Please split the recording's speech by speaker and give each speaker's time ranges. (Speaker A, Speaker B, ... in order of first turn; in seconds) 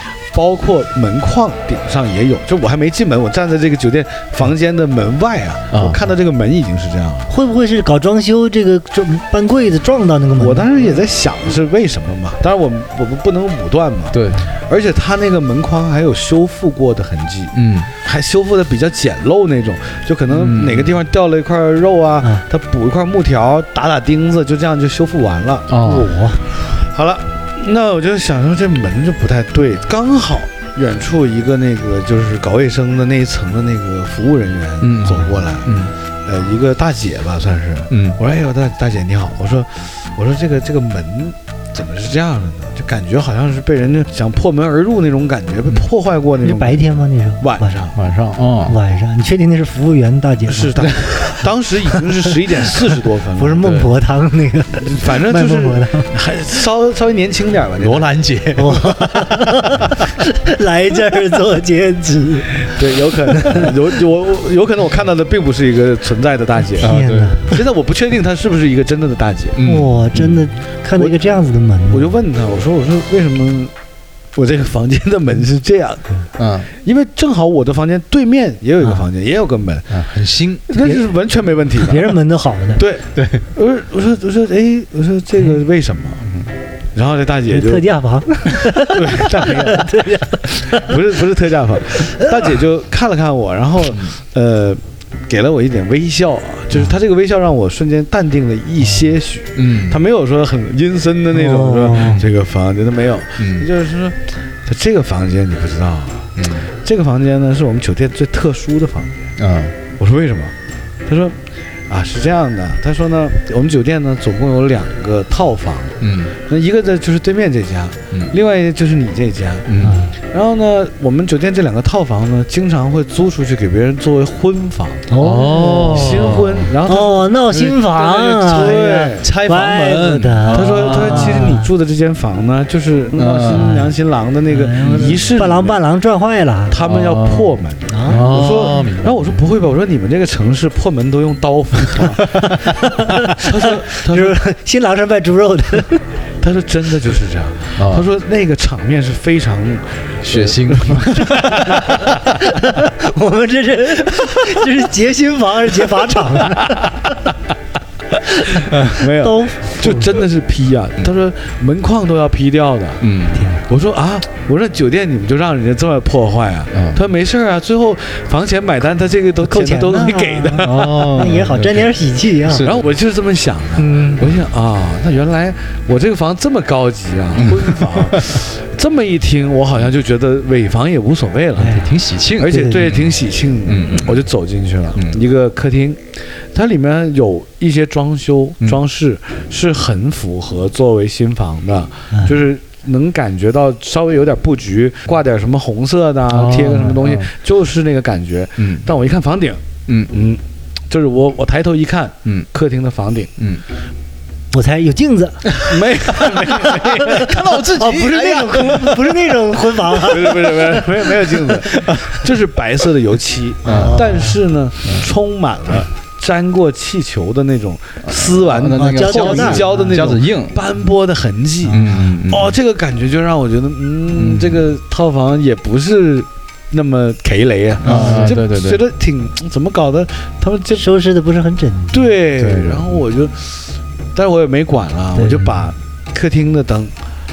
Speaker A: 0.3-7.3, 10.4-25.7, 26.5-46.8, 47.4-48.0, 50.5-53.6, 54.8-58.1, 62.7-66.9, 67.5-69.6, 71.9-73.7, 74.3-76.1, 76.8-80.0, 80.7-82.1, 82.8-86.2, 86.9-87.8, 88.8-109.3, 110.0-110.5, 111.1-111.4, 111.9-125.0, 125.8-129.3, 130.5-135.8, 136.7-142.6, 143.4-144.3, 146.4-152.2, 158.5-163.1, 163.7-171.2, 172.6-186.0, 186.5-203.3, 205.6-207.4, 210.0-230.8, 231.9-236.9
Speaker B: 5.7-6.0, 14.1-14.4, 17.5-17.9, 20.3-21.0, 25.7-26.1, 34.8-35.9, 37.9-38.2, 47.9-48.8, 53.6-53.9, 57.8-59.2, 66.8-67.5, 69.5-70.5, 76.4-76.7, 79.9-80.6, 83.1-83.5, 93.8-94.1, 99.5-100.0, 103.4-103.7, 106.4-106.7, 109.4-109.8, 116.0-116.3, 119.7-120.0, 125.2-126.7, 127.5-131.5, 133.2-133.7, 134.8-135.2, 136.8-139.4, 142.0-142.9, 147.8-148.1, 150.2-152.2, 163.0-163.4, 166.7-167.0, 170.6-171.9, 172.4-172.9, 177.3-178.3, 181.7-183.1, 183.7-184.2, 184.9-185.2, 196.3-197.3, 198.6-198.9, 199.9-200.1, 203.4-203.6, 205.5-209.3, 211.8-212.1, 213.6-214.1, 218.0-220.6, 221.7-222.6, 224.1-224.7, 227.8-228.8, 232.4-232.9
Speaker C: 7.3-10.9, 25.8-26.4, 46.4-47.8, 48.6-52.0, 53.4-56.1, 58.5-63.8, 66.8-67.5, 69.6-72.2, 80.8-81.1, 81.8-82.8, 87.5-91.0, 91.9-92.5, 101.3-102.2, 119.8-120.1, 125.1-131.7, 133.5-133.9, 134.5-136.8, 137.9-138.3, 142.3-146.0, 151.4-157.2, 158.2-160.2, 163.3-163.6, 169.4-172.7, 173.8-174.3, 181.6-181.9, 182.4-182.9, 192.1-192.4, 204.5-205.5, 207.0-211.5, 213.6-214.4, 218.7-220.0, 221.6-222.2, 227.8-228.3, 230.7-232.1, 235.1-235.7